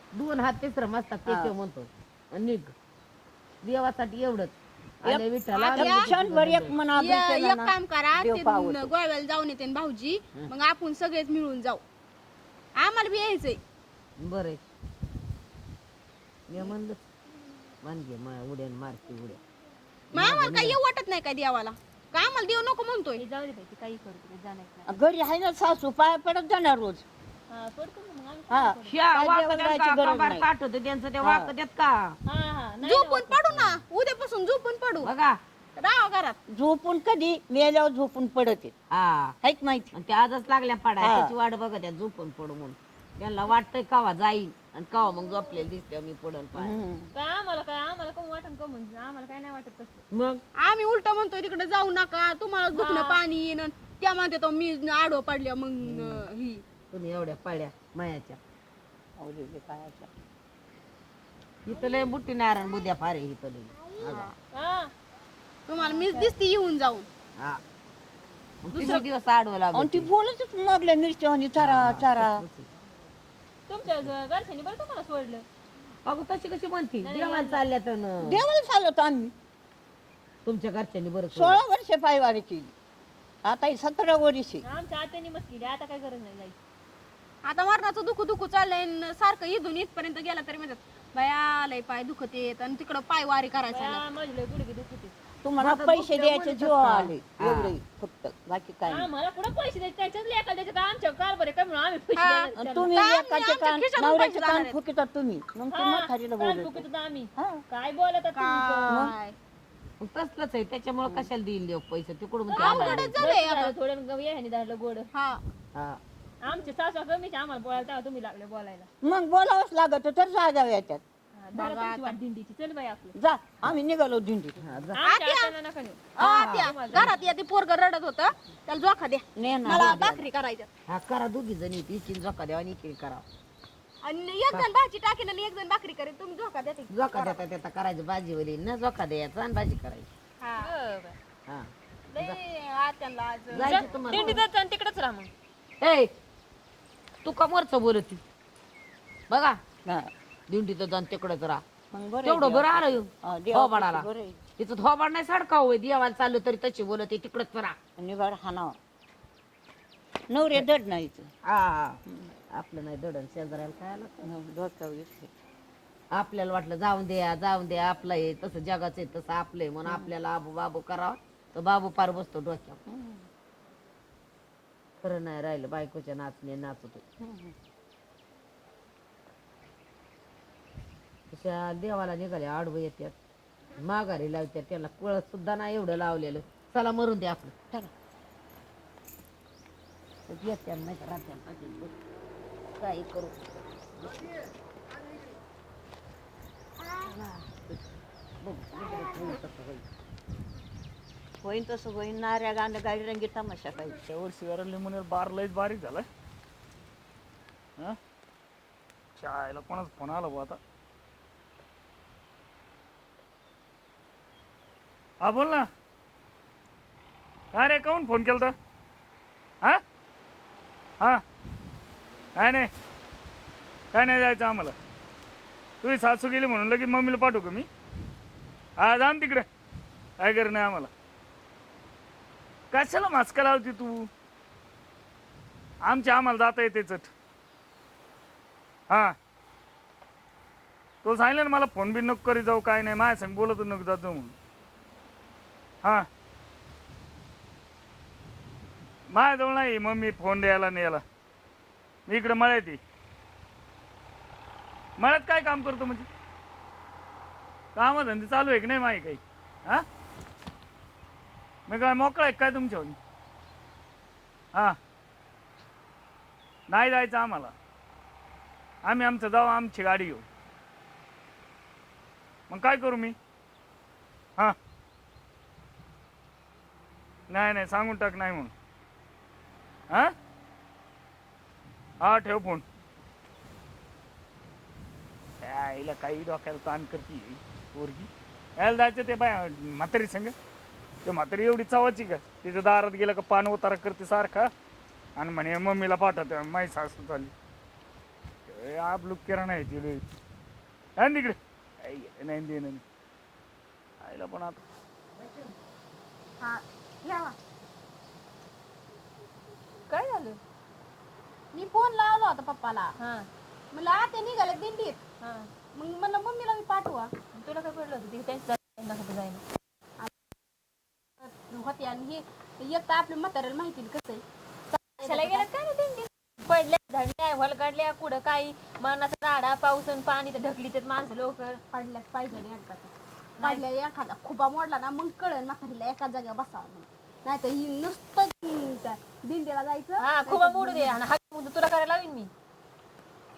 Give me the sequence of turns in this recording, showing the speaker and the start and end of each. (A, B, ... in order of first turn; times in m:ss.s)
0:00.1-0:02.7 A
0:01.3-0:01.5 B
0:03.6-0:06.8 A
0:05.0-0:08.9 B
0:05.5-0:06.1 C
0:06.9-0:11.8 C
0:12.8-0:13.6 C
0:14.2-0:14.6 A
0:16.5-0:17.0 A
0:17.8-0:19.4 A
0:20.1-0:20.8 A
0:20.2-0:23.2 C
0:23.2-0:25.0 D
0:24.9-0:27.0 B
0:27.5-0:29.0 D
0:28.5-0:30.4 B
0:28.8-0:32.2 A
0:31.2-0:31.5 B
0:32.3-0:33.5 D
0:32.8-0:35.1 C
0:35.0-0:35.4 A
0:35.8-0:36.4 C
0:36.5-0:38.7 B
0:38.9-0:39.4 A
0:39.4-0:39.9 B
0:39.9-0:46.8 A
0:41.0-0:41.3 B
0:46.6-0:47.1 B
0:47.1-0:50.0 D
0:50.1-0:50.4 A
0:50.6-0:56.6 C
0:52.7-0:53.2 D
0:55.8-0:56.2 A
0:56.9-0:58.4 A
0:59.2-1:00.1 B
1:01.7-1:04.3 A
1:04.5-1:04.9 D
1:05.7-1:07.1 C
1:05.8-1:06.3 D
1:08.6-1:10.1 A
1:08.8-1:09.0 C
1:09.7-1:12.4 B
1:11.6-1:12.7 A
1:13.7-1:15.4 D
1:13.9-1:14.1 A
1:16.0-1:18.4 A
1:17.0-1:17.6 D
1:18.2-1:19.3 B
1:20.4-1:21.6 A
1:21.3-1:22.7 B
1:23.4-1:24.6 B
1:24.6-1:26.6 D
1:27.4-1:34.0 C
1:33.7-1:35.1 D
1:35.4-1:39.1 B
1:35.6-1:37.8 A
1:38.9-1:42.9 D
1:42.2-1:44.8 C
1:42.6-1:47.6 B
1:45.7-1:49.1 D
1:48.3-1:49.4 C
1:50.0-1:53.2 A
1:52.5-1:55.1 D
1:52.5-1:53.7 C
1:55.1-1:55.4 C
1:55.8-1:56.0 A
1:56.4-1:58.9 D
1:59.0-2:01.0 B
2:01.4-2:03.2 D
2:01.6-2:02.2 C
2:03.2-2:04.6 B
2:04.6-2:05.0 A
2:05.0-2:07.2 D
2:05.0-2:05.6 C
2:06.2-2:10.7 C
2:06.2-2:07.2 A
2:09.4-2:10.2 B
2:09.7-2:10.0 A
2:10.9-2:13.2 A
2:14.0-2:17.4 C
2:16.9-2:20.1 A
2:20.4-2:20.7 C
2:20.6-2:21.2 D
2:21.5-2:22.4 A
2:22.1-2:24.4 C
2:23.5-2:24.4 A
2:23.6-2:25.3 D
2:25.8-2:26.1 A
2:27.2-2:28.2 A
2:29.3-2:29.6 A
2:30.5-2:31.6 A
2:31.9-2:34.4 B
2:32.2-2:34.1 A
2:34.6-2:37.8 A
2:38.0-2:38.8 B
2:40.3-2:41.3 B
2:41.4-2:42.0 A
2:42.5-2:44.2 A
2:44.2-2:45.3 B
2:46.1-2:52.8 A
2:49.9-2:50.1 B
2:52.9-2:53.2 B
2:55.0-2:57.0 A
2:57.2-2:57.5 B
3:01.3-3:03.2 A
3:03.8-3:07.5 A
3:10.3-3:11.9 A
3:12.8-3:13.4 A
3:14.0-3:14.3 A
3:17.0-3:17.8 A
3:18.4-3:19.8 A
3:21.4-3:24.0 B
3:24.1-3:26.0 E
3:29.2-3:30.6 E
3:35.2-3:35.7 E
3:37.5-3:38.5 E
3:42.4-3:42.7 E
3:43.9-3:44.7 E
3:45.8-3:47.7 E
3:48.8-3:49.5 E
3:50.2-3:50.9 E
3:52.7-3:54.1 E
3:55.9-3:57.1 E
4:01.0-4:04.3 E
4:09.1-4:11.0 E
4:12.1-4:12.8 E
4:15.0-4:16.1 E
4:17.8-4:19.8 E
4:21.7-4:23.0 E
4:26.7-4:27.5 E
4:28.8-4:30.2 E
4:32.5-4:33.2 E
4:37.3-4:38.5 E
4:42.0-4:42.6 E
4:45.4-4:50.3 E
4:51.1-4:54.5 E
4:55.2-4:57.3 E
4:58.5-5:00.0 E
5:01.0-5:02.8 E
5:04.0-5:04.6 E
5:06.4-5:07.4 C
5:09.9-5:10.4 D
5:11.5-5:12.9 C
5:13.0-5:13.3 D
5:13.7-5:15.0 C
5:15.2-5:15.5 D
5:15.8-5:17.1 C
5:17.4-5:19.4 D
5:21.2-5:25.5 C
5:25.0-5:31.6 D
5:31.7-5:41.0 C
5:33.4-5:33.6 D
5:40.0-5:42.3 D